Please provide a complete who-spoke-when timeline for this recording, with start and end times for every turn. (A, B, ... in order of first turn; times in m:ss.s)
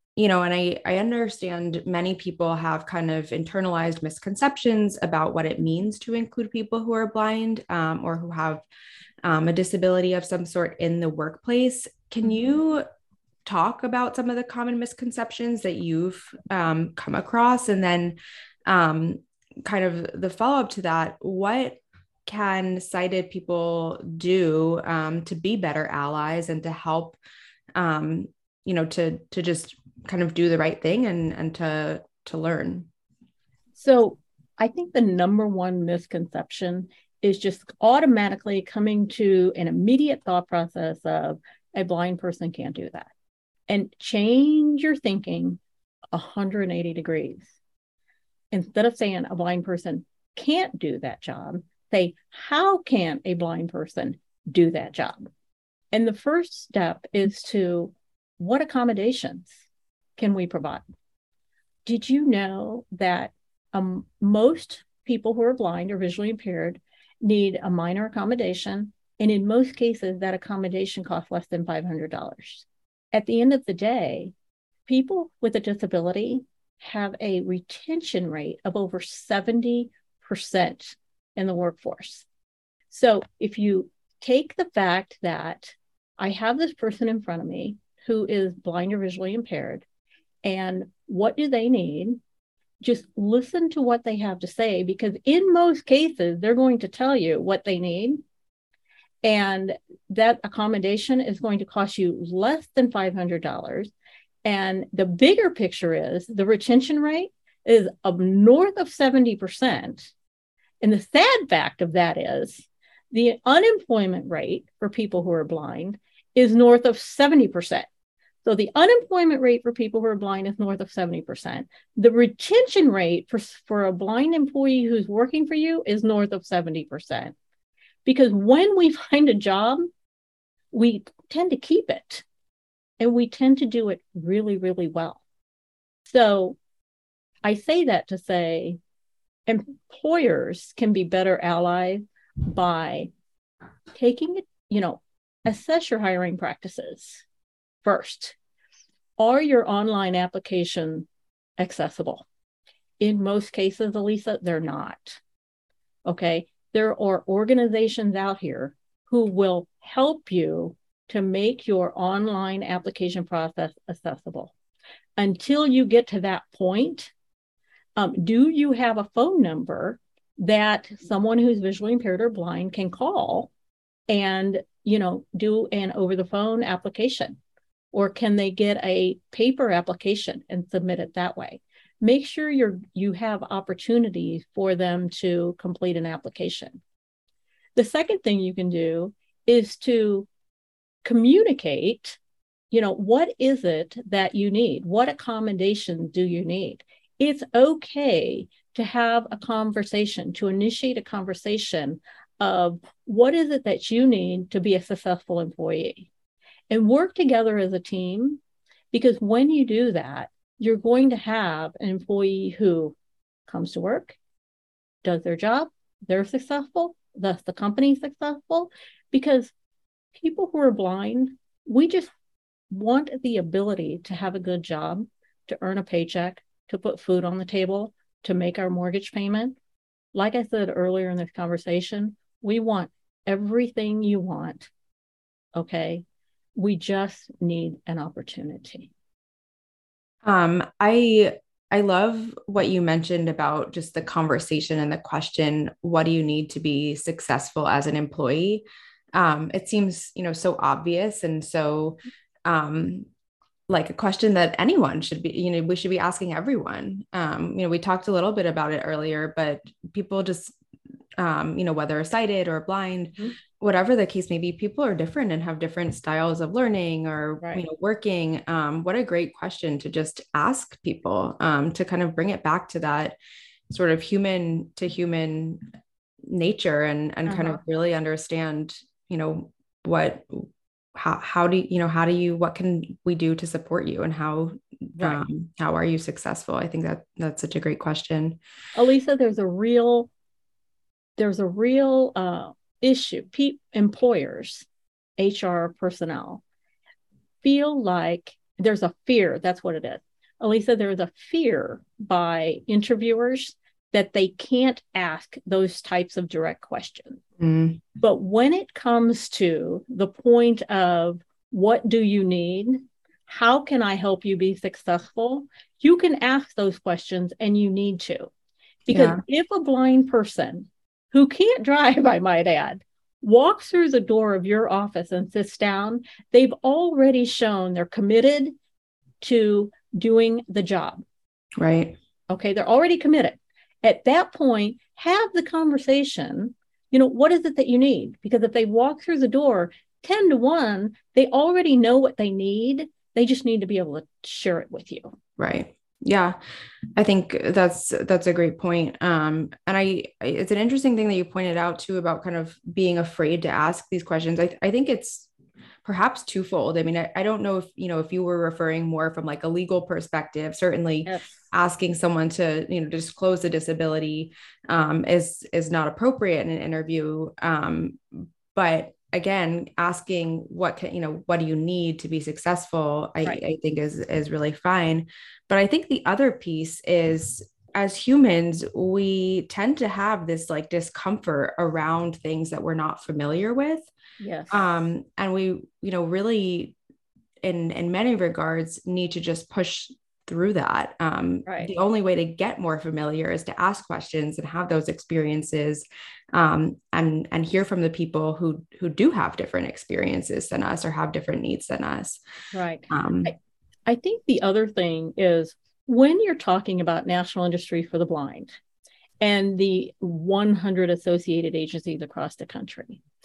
0:00.2-0:08.6 A
0:09.2-0:12.8 A
0:12.2-0:12.5 B
0:13.4-0:27.2 A
0:27.7-0:32.9 A
0:33.7-0:43.1 B
0:43.7-0:45.6 B
0:46.1-0:47.6 B
0:48.5-0:55.3 B
0:55.9-0:59.6 B
1:00.2-1:00.8 B
1:01.8-1:14.3 B
1:14.8-1:22.3 B
1:22.9-1:29.8 B
1:30.4-1:32.2 B
1:32.8-1:38.2 B
1:39.2-1:43.9 B
1:44.4-1:50.1 B
1:50.8-1:57.9 B
1:58.4-2:07.3 B
2:08.0-2:09.9 B
2:10.7-2:12.2 B
2:13.0-2:15.2 B
2:16.0-2:16.6 B
2:17.4-2:18.8 B
2:19.4-2:23.1 B
2:23.9-2:27.2 B
2:27.8-2:28.4 B
2:29.2-2:31.1 B
2:31.6-2:32.2 B
2:33.0-2:35.2 B
2:36.0-2:44.5 B
2:45.2-2:47.1 B
2:48.0-2:53.5 B
2:54.1-2:57.4 B
2:57.9-3:06.8 B
3:07.7-3:10.3 B
3:11.0-3:12.2 B
3:12.7-3:26.1 B
3:26.7-3:28.4 B
3:28.9-3:33.0 B
3:33.5-3:34.2 B
3:35.0-3:39.5 B
3:40.1-3:42.1 B
3:42.7-3:49.6 B
3:50.1-3:54.7 B
3:55.5-3:56.0 B
3:56.5-3:58.9 B
4:00.2-4:13.1 A
4:13.7-4:20.6 A
4:21.2-4:33.2 A
4:33.7-4:35.6 A
4:36.3-4:48.4 A
4:37.2-4:37.6 B
4:48.7-4:50.1 B
4:51.2-4:54.7 B
4:55.2-4:56.4 B
4:57.4-5:07.2 B
5:07.4-5:07.8 A
5:08.0-5:18.3 B
5:18.9-5:28.5 B
5:18.9-5:19.2 A
5:29.2-5:31.0 B
5:31.6-5:32.0 A
5:32.3-5:45.2 B
5:45.4-5:46.4 A
5:47.0-5:55.3 A
5:55.8-6:23.9 A
6:24.2-6:24.6 B
6:24.5-6:26.8 A
6:27.4-6:42.2 A
6:42.5-6:48.6 B
6:42.9-6:43.3 A
6:49.2-6:53.0 B